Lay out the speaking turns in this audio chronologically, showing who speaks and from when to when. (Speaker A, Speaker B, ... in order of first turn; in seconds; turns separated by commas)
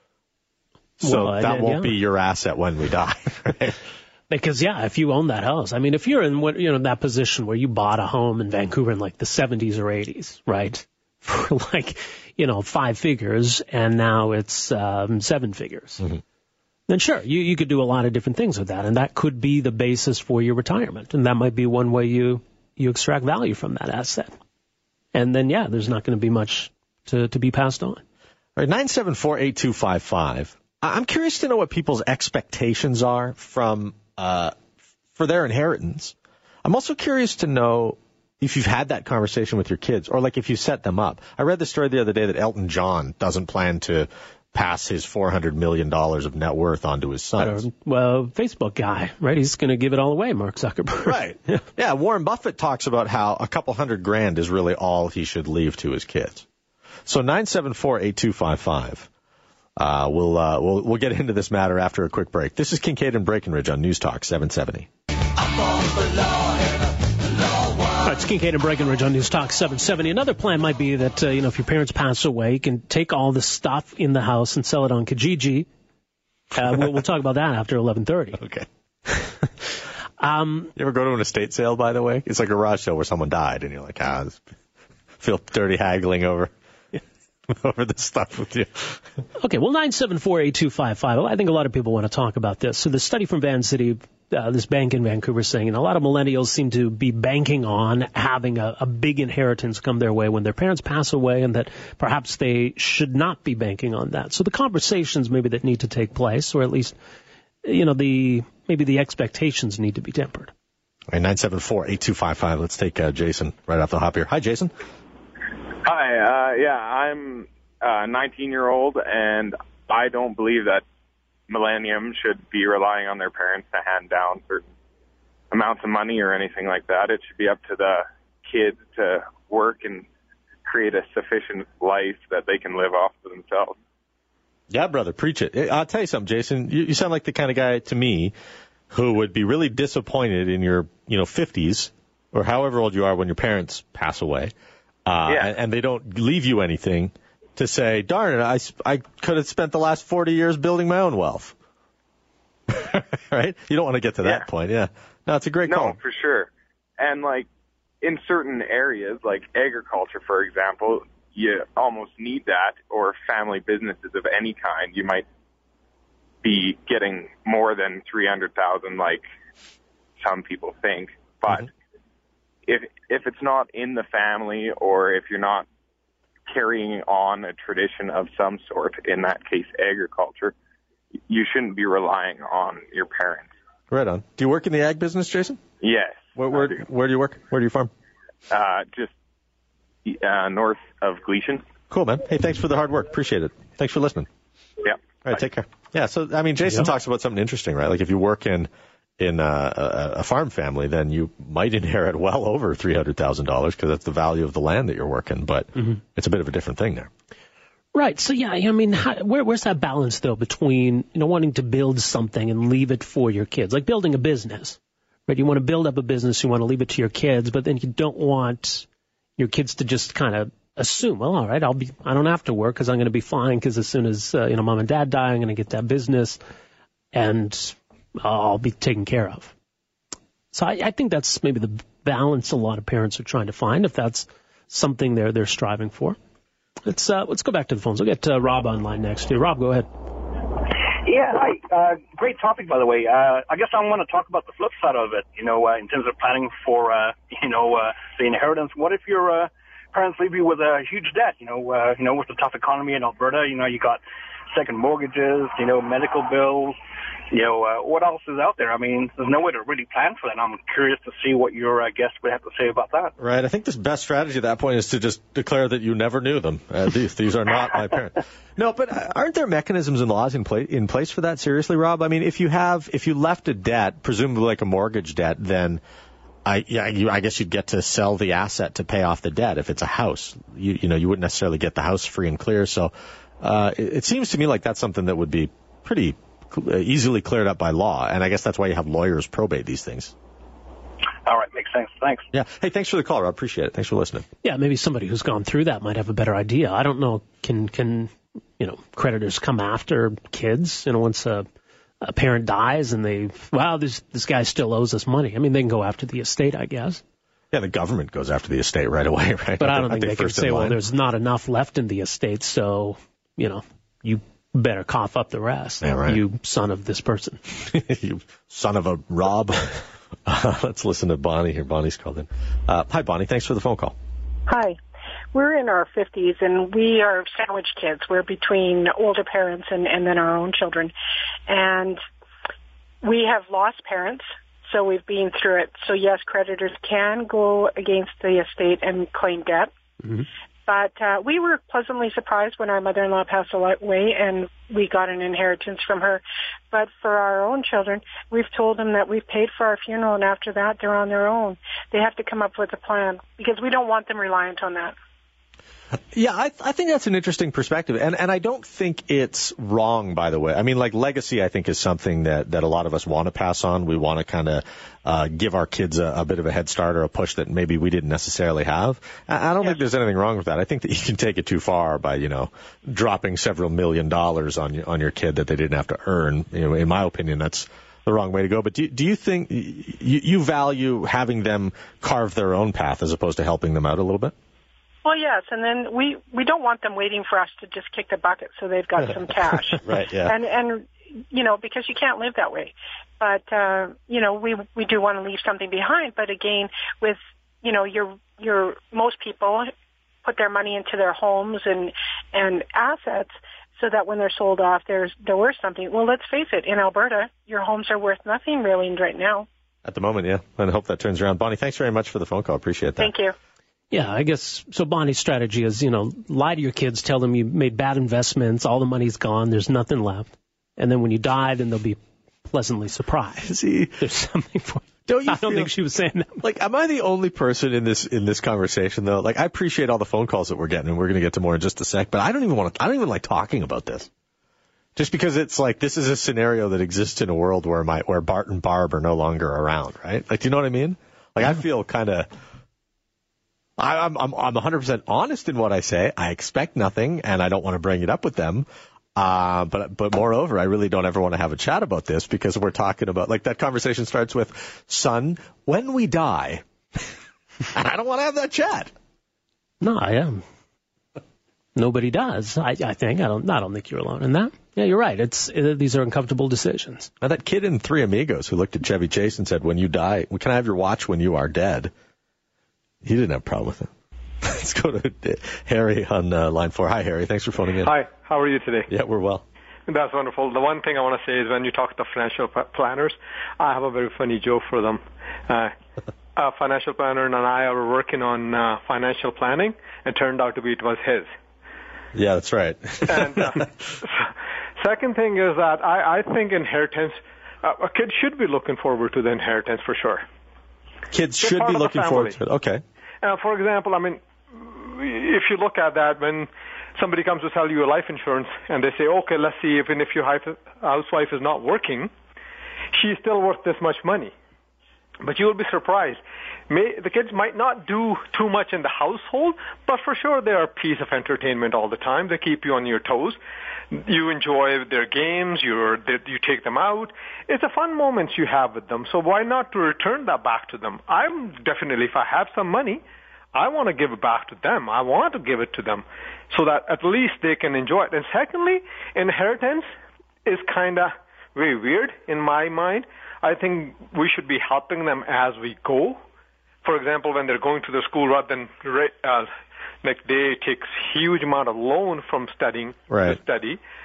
Speaker A: 1.0-3.8, Speaker B: 1.0-2.0, Speaker B: 4.3-16.0, Speaker B: 16.9-24.4, Speaker B: 25.1-28.0, Speaker A: 28.6-34.5, Speaker A: 35.2-47.7, Speaker B: 47.4-51.6, Speaker A: 51.0-56.5, Speaker A: 57.1-59.1, Speaker A: 59.8-64.9, Speaker B: 68.0-75.7, Speaker B: 76.5-78.4, Speaker A: 78.4-78.7, Speaker B: 80.2-80.7, Speaker A: 80.8-84.5, Speaker A: 85.2-86.5, Speaker A: 87.5-89.0, Speaker B: 89.4-107.0, Speaker B: 107.6-110.5, Speaker A: 111.1-114.7, Speaker C: 115.8-120.8, Speaker C: 121.5-124.7, Speaker C: 125.5-130.1, Speaker C: 130.7-133.8, Speaker A: 134.7-138.3, Speaker A: 138.9-144.5, Speaker A: 145.1-151.6, Speaker A: 152.7-156.0, Speaker C: 155.7-157.5, Speaker C: 158.0-165.3, Speaker C: 166.4-169.2, Speaker C: 170.2-171.7, Speaker C: 172.7-175.7, Speaker C: 176.5-180.5, Speaker C: 181.3-183.5, Speaker A: 183.9-185.6, Speaker C: 185.8-186.8, Speaker A: 186.4-187.9, Speaker C: 188.5-189.1, Speaker C: 190.1-191.6, Speaker A: 191.9-194.3, Speaker A: 195.2-207.1, Speaker B: 207.9-218.9, Speaker B: 219.4-226.4, Speaker B: 227.1-229.5, Speaker B: 230.5-236.2, Speaker B: 236.8-239.9, Speaker D: 241.0-256.8, Speaker D: 257.3-263.1, Speaker A: 263.2-275.8, Speaker A: 276.5-290.1, Speaker D: 291.3-292.3, Speaker A: 292.3-294.3, Speaker B: 294.4-301.5, Speaker B: 302.0-307.0, Speaker A: 307.5-310.8, Speaker B: 309.6-317.4, Speaker A: 315.8-316.2, Speaker A: 317.7-323.9, Speaker E: 324.5-324.8, Speaker E: 325.3-330.9, Speaker E: 331.5-332.0, Speaker E: 333.0-339.7, Speaker E: 340.7-355.0, Speaker A: 356.1-384.3, Speaker E: 385.0-399.7, Speaker A: 389.8-390.4, Speaker E: 400.2-409.5, Speaker A: 409.9-413.1, Speaker E: 413.0-413.3, Speaker B: 413.9-426.4, Speaker A: 423.4-424.0, Speaker A: 425.1-425.7, Speaker A: 426.4-434.1, Speaker A: 435.0-442.3, Speaker A: 443.8-457.1, Speaker A: 457.7-458.9, Speaker B: 459.8-460.4, Speaker B: 461.8-467.1, Speaker A: 467.2-471.9, Speaker A: 473.0-473.9, Speaker A: 474.4-477.9, Speaker F: 477.8-478.9, Speaker A: 478.9-479.4, Speaker F: 479.9-485.7, Speaker F: 486.4-491.3, Speaker A: 492.1-493.7, Speaker F: 493.1-500.3, Speaker A: 501.1-502.8, Speaker F: 501.4-502.4, Speaker F: 503.2-512.1, Speaker F: 512.9-514.3, Speaker F: 515.2-523.4, Speaker F: 523.9-533.0, Speaker F: 533.5-539.9, Speaker F: 540.5-546.2, Speaker F: 546.8-549.5, Speaker F: 550.0-553.8, Speaker A: 553.1-553.4